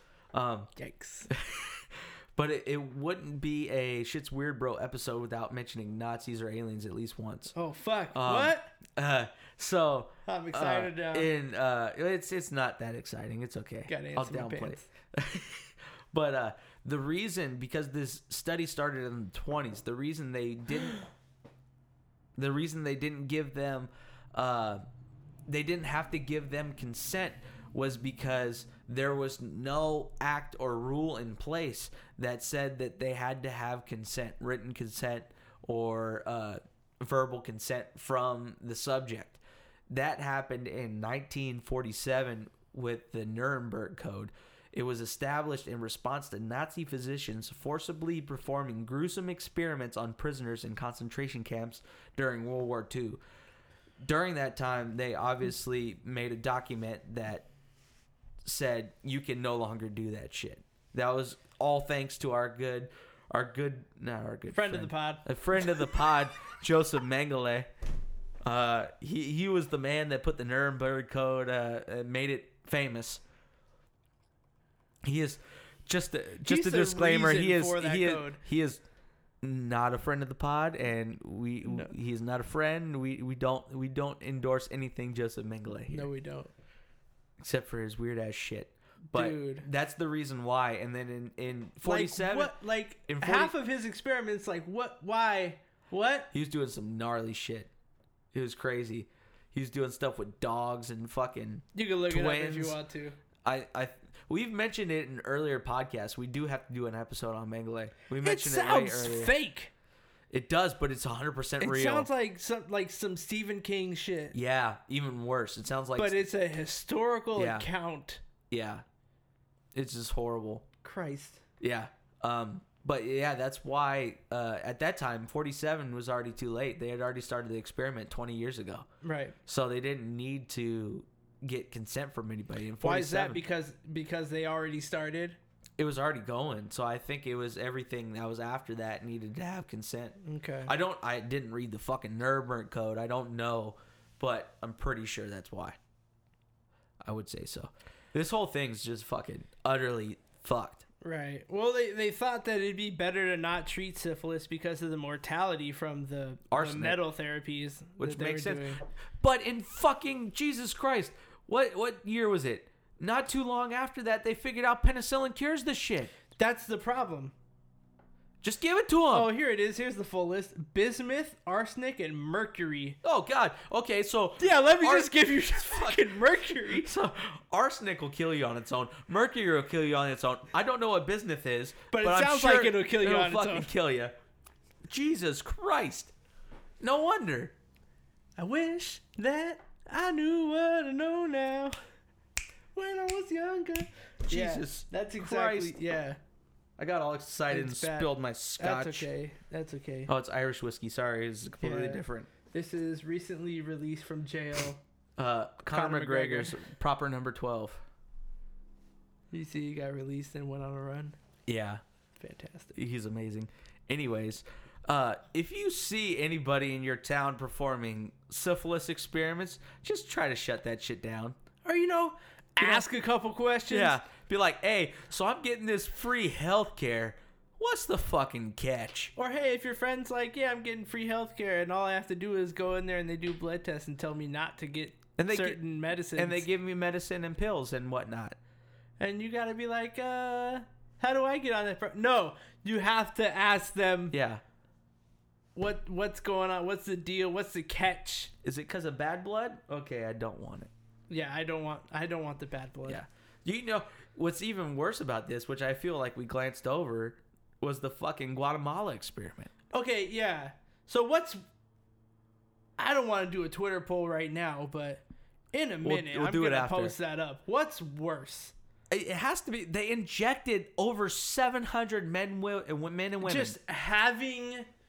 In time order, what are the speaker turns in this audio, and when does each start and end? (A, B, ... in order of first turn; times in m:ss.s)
0:00.3-0:00.7 A
0:00.8-0:01.3 B
0:01.3-0:07.5 A
0:07.5-0:08.7 B
0:08.1-0:21.0 A
0:10.2-0:11.3 B
0:13.9-0:14.9 B
0:22.4-0:24.8 A
0:25.5-0:53.2 A
0:54.0-0:57.5 A
0:58.4-1:07.7 A
1:04.5-1:06.0 B
1:08.4-1:13.2 A
1:15.0-1:18.8 A
1:16.4-1:18.4 B
1:19.4-1:26.1 A
1:25.9-1:26.5 B
1:27.4-1:32.6 A
1:29.1-1:29.6 B
1:31.8-1:36.3 B
1:33.1-1:33.5 A
1:36.3-1:37.7 A
1:38.3-1:42.8 A
1:41.7-1:43.2 B
1:43.4-1:49.3 A
1:48.2-1:49.7 B
1:50.3-1:52.1 A
1:51.6-1:54.3 B
1:54.3-1:56.2 A
1:56.0-1:58.2 B
1:57.4-1:57.7 A
1:58.5-1:58.8 A
1:59.7-2:00.6 A
2:00.8-2:01.4 B
2:01.6-2:08.8 A
2:09.0-2:09.4 B
2:09.4-2:13.4 A
2:12.8-2:15.4 B
2:15.8-2:25.8 A
2:20.2-2:20.7 B
2:27.0-2:30.8 A
2:31.0-2:38.8 B
2:36.5-2:37.0 A
2:38.0-2:46.1 A
2:46.4-2:47.3 B
2:48.4-2:49.3 A
2:49.1-2:53.0 B
2:53.0-3:04.1 A
2:54.4-2:56.9 B
3:01.9-3:03.7 B
3:04.9-3:06.1 A
3:06.8-3:07.5 A
3:08.4-3:11.8 B
3:12.7-3:16.2 B
3:14.3-3:15.8 A
3:16.8-3:19.1 A
3:17.5-3:20.1 B
3:20.1-3:22.3 A
3:21.6-3:24.8 B
3:25.2-3:27.8 A
3:25.7-3:26.6 B
3:29.3-3:31.2 B
3:31.5-3:31.8 A
3:32.2-3:32.7 B
3:32.7-3:41.4 A
3:41.6-3:44.0 B
3:42.6-3:42.8 A
3:43.7-3:49.1 A
3:49.2-3:56.4 B
3:55.2-3:55.6 A
3:56.1-3:58.4 A
3:59.0-4:04.2 B
4:04.1-4:04.4 A
4:05.6-4:08.3 B
4:08.4-4:10.7 A
4:11.1-4:13.0 B
4:12.8-4:19.5 A
4:19.7-4:21.4 B
4:22.8-4:28.5 B
4:25.8-4:26.9 A
4:28.9-4:33.6 A
4:33.2-4:34.7 B